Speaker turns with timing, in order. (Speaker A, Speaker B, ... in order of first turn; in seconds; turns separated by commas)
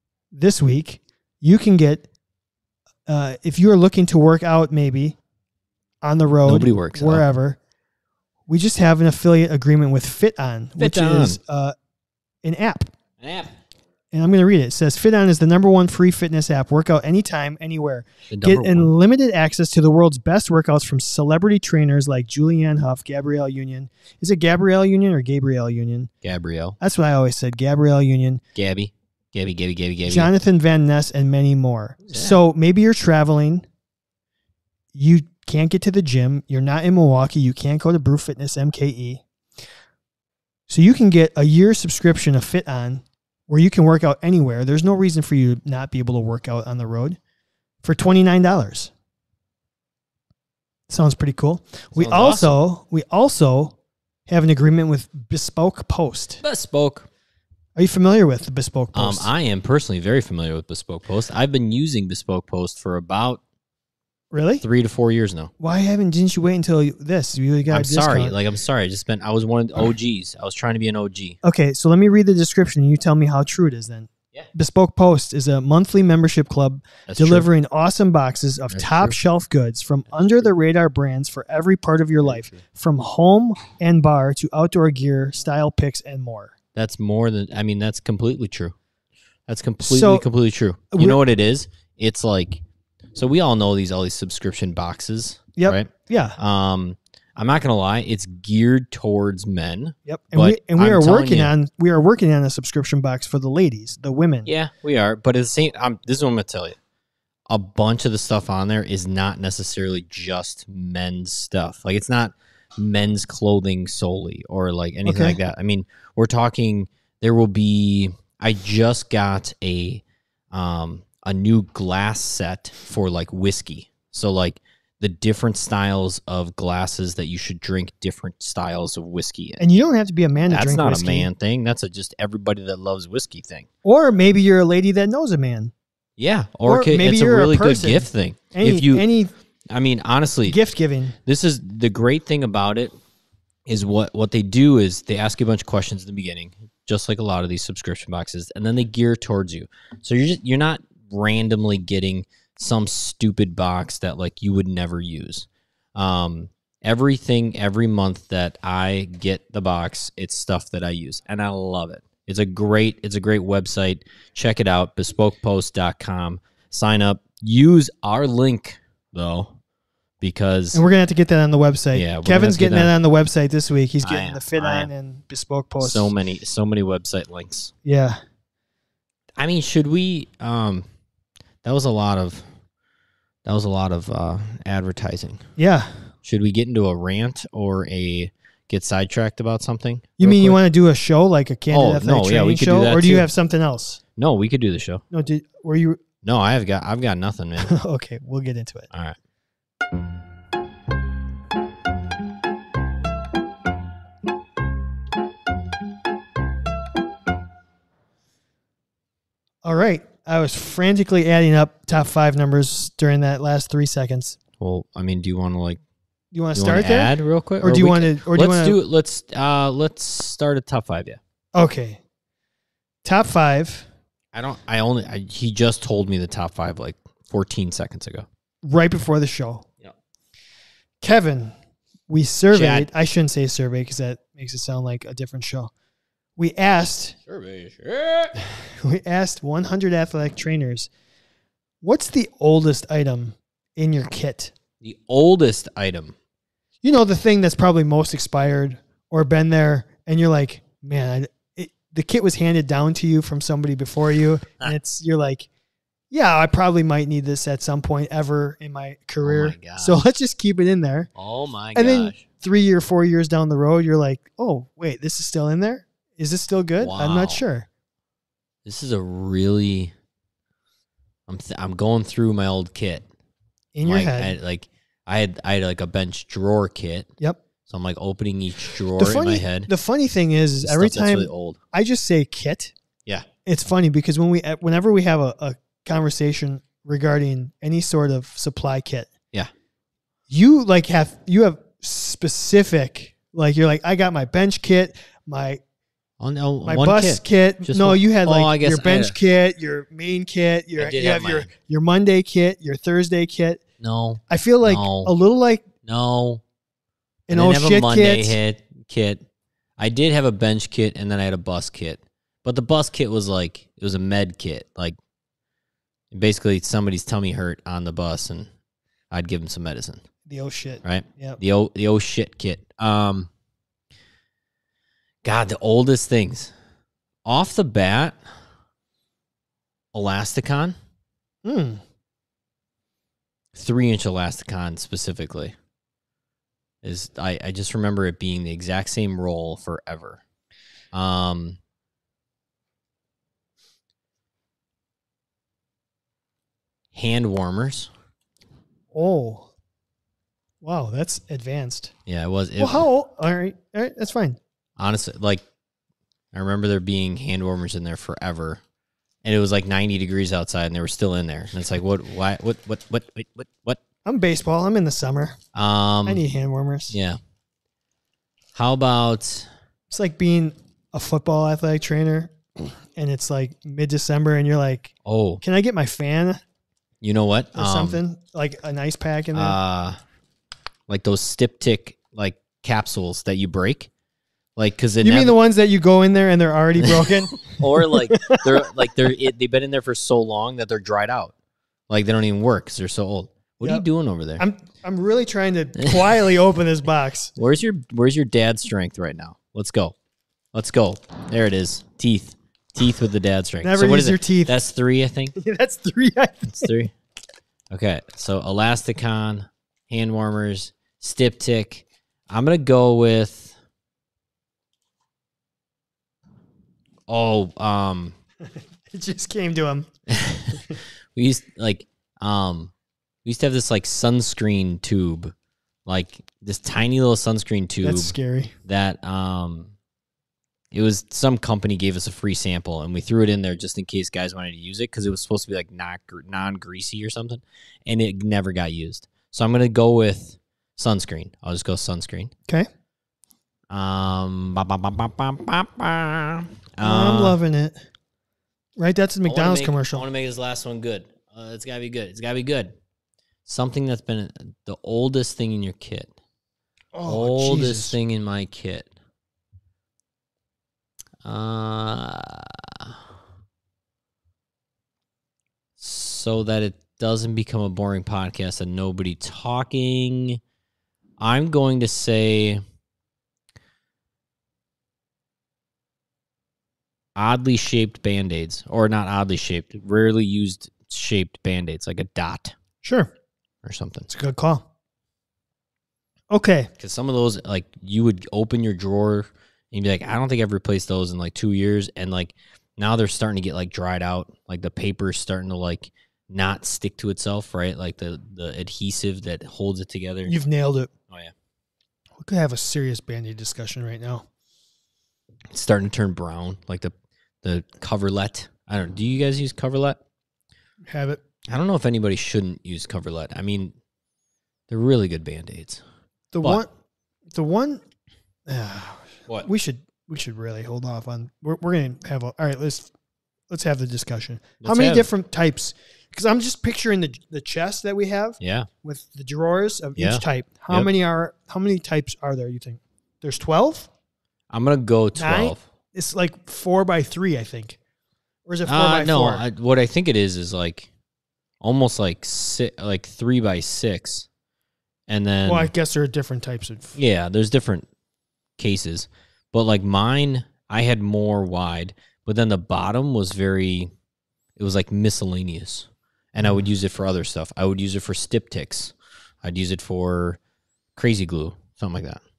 Speaker A: 0.3-2.1, Speaker A: 3.1-5.2, Speaker A: 6.0-7.6, Speaker B: 6.5-7.2, Speaker A: 8.5-11.7, Speaker B: 10.8-11.4, Speaker A: 12.4-12.9, Speaker B: 13.2-13.5, Speaker A: 14.1-26.1, Speaker B: 18.3-18.9, Speaker B: 26.2-26.8, Speaker A: 26.8-28.4, Speaker B: 28.5-30.3, Speaker A: 30.1-33.6, Speaker B: 32.0-32.4, Speaker A: 34.9-39.2, Speaker A: 40.7-47.2, Speaker A: 47.8-48.9, Speaker A: 50.9-53.7, Speaker B: 51.9-52.6, Speaker A: 54.3-56.4, Speaker B: 56.4-57.1, Speaker A: 57.8-59.3, Speaker B: 58.9-63.4, Speaker A: 64.3-64.6, Speaker B: 64.6-65.5, Speaker A: 65.6-68.3, Speaker B: 67.7-71.4, Speaker A: 71.4-86.5, Speaker B: 77.1-77.5, Speaker B: 78.7-79.2, Speaker B: 82.2-82.6, Speaker B: 86.7-88.7, Speaker B: 89.5-92.6, Speaker A: 89.8-90.2, Speaker A: 90.9-91.2, Speaker B: 93.1-101.5, Speaker A: 95.5-96.3, Speaker A: 100.1-104.5, Speaker B: 104.5-106.8, Speaker B: 107.5-129.6, Speaker A: 115.0-115.4, Speaker A: 129.6-131.3, Speaker B: 130.5-133.7, Speaker A: 133.8-135.7, Speaker B: 136.2-139.0, Speaker A: 136.7-139.3, Speaker B: 139.7-140.6, Speaker A: 140.5-141.2, Speaker B: 141.2-142.9, Speaker B: 143.7-169.5, Speaker B: 170.2-170.8, Speaker A: 170.7-176.1, Speaker B: 171.9-172.9, Speaker B: 174.0-174.9, Speaker B: 175.8-177.7, Speaker A: 177.8-178.2, Speaker B: 179.4-180.8, Speaker B: 181.6-182.4, Speaker B: 183.4-185.4, Speaker A: 185.6-186.1, Speaker B: 186.2-190.6, Speaker A: 190.2-194.0, Speaker B: 191.7-193.3, Speaker B: 194.2-195.0, Speaker A: 195.1-196.0, Speaker B: 196.2-197.8, Speaker A: 197.6-198.9, Speaker B: 198.9-199.2, Speaker A: 209.6-214.4, Speaker B: 214.6-215.8, Speaker A: 216.3-218.8, Speaker B: 216.5-221.2, Speaker A: 221.5-222.0, Speaker A: 223.0-223.9, Speaker B: 224.3-228.3, Speaker A: 228.6-229.6, Speaker A: 231.0-231.5, Speaker A: 232.1-235.7, Speaker B: 232.5-232.9, Speaker A: 236.4-237.2, Speaker B: 237.3-238.4, Speaker A: 238.6-240.9, Speaker A: 241.8-244.5, Speaker B: 244.8-246.1, Speaker A: 246.8-255.5, Speaker A: 256.1-261.1, Speaker B: 259.2-260.0, Speaker B: 261.1-262.2, Speaker A: 261.7-267.7, Speaker B: 266.8-267.4, Speaker B: 268.6-269.9, Speaker B: 271.3-273.1, Speaker A: 273.7-274.3, Speaker B: 273.8-277.1, Speaker B: 277.6-279.7, Speaker A: 279.0-282.7, Speaker B: 280.6-281.6, Speaker A: 283.4-289.1, Speaker A: 290.3-295.6, Speaker B: 296.2-299.2, Speaker A: 296.6-303.6, Speaker B: 300.8-301.5, Speaker B: 303.8-305.1, Speaker A: 304.3-305.7, Speaker B: 305.8-306.4, Speaker A: 307.3-308.4, Speaker B: 307.3-309.2, Speaker B: 309.8-315.0, Speaker B: 316.1-318.5, Speaker B: 319.1-320.0, Speaker A: 320.3-321.4, Speaker B: 320.8-323.3, Speaker B: 325.2-326.5, Speaker B: 327.2-328.2, Speaker B: 329.9-330.8, Speaker A: 331.4-331.8, Speaker B: 333.5-335.5, Speaker B: 336.8-340.2, Speaker B: 340.9-341.6, Speaker B: 346.9-347.9, Speaker A: 348.9-349.5, Speaker A: 350.6-351.9, Speaker B: 352.1-352.9, Speaker A: 352.6-354.4, Speaker B: 354.8-355.4, Speaker B: 356.3-358.6, Speaker B: 359.2-363.8, Speaker A: 364.0-365.4, Speaker B: 365.5-366.2, Speaker A: 366.0-367.0, Speaker B: 366.9-367.2, Speaker B: 368.5-369.5, Speaker A: 369.9-376.4, Speaker B: 375.0-375.4, Speaker B: 377.0-378.0, Speaker A: 377.5-379.6, Speaker B: 379.3-380.0, Speaker B: 380.9-383.9, Speaker B: 384.6-385.4, Speaker A: 385.0-388.4, Speaker B: 386.8-391.3, Speaker B: 391.9-394.4, Speaker A: 394.4-397.3, Speaker B: 397.4-399.9, Speaker B: 400.5-405.4, Speaker A: 403.6-404.5, Speaker A: 405.4-406.7, Speaker B: 406.5-406.9, Speaker B: 407.7-413.6, Speaker B: 417.1-418.1, Speaker A: 418.9-419.9, Speaker B: 420.1-422.7, Speaker B: 423.2-425.3, Speaker B: 425.9-428.1, Speaker A: 427.8-428.5, Speaker B: 428.6-429.7, Speaker B: 430.7-442.3, Speaker B: 443.7-447.4, Speaker A: 446.8-447.8, Speaker A: 448.8-450.0, Speaker B: 449.2-452.7, Speaker B: 453.4-456.1, Speaker A: 456.9-458.0, Speaker B: 457.1-458.9, Speaker B: 461.2-463.0, Speaker B: 465.8-470.4, Speaker B: 471.2-472.6, Speaker B: 477.1-482.5, Speaker A: 482.8-483.1, Speaker B: 483.6-484.1, Speaker A: 484.1-484.6, Speaker A: 486.3-486.7, Speaker B: 486.8-500.3, Speaker A: 500.3-500.9, Speaker A: 502.2-504.2, Speaker B: 505.5-510.0, Speaker A: 510.9-511.2, Speaker B: 511.5-513.7, Speaker B: 514.7-515.8, Speaker A: 516.3-516.7, Speaker A: 517.3-517.8, Speaker A: 518.5-522.9, Speaker A: 523.5-533.9, Speaker B: 524.6-525.1, Speaker B: 528.4-528.7, Speaker B: 530.0-530.9, Speaker B: 534.5-535.6, Speaker A: 535.1-537.8, Speaker A: 538.5-539.4, Speaker B: 538.6-540.9, Speaker B: 541.6-544.3, Speaker B: 545.1-545.7, Speaker A: 545.5-547.0, Speaker B: 547.0-547.9, Speaker B: 548.6-553.9, Speaker B: 554.5-560.4, Speaker B: 561.0-562.2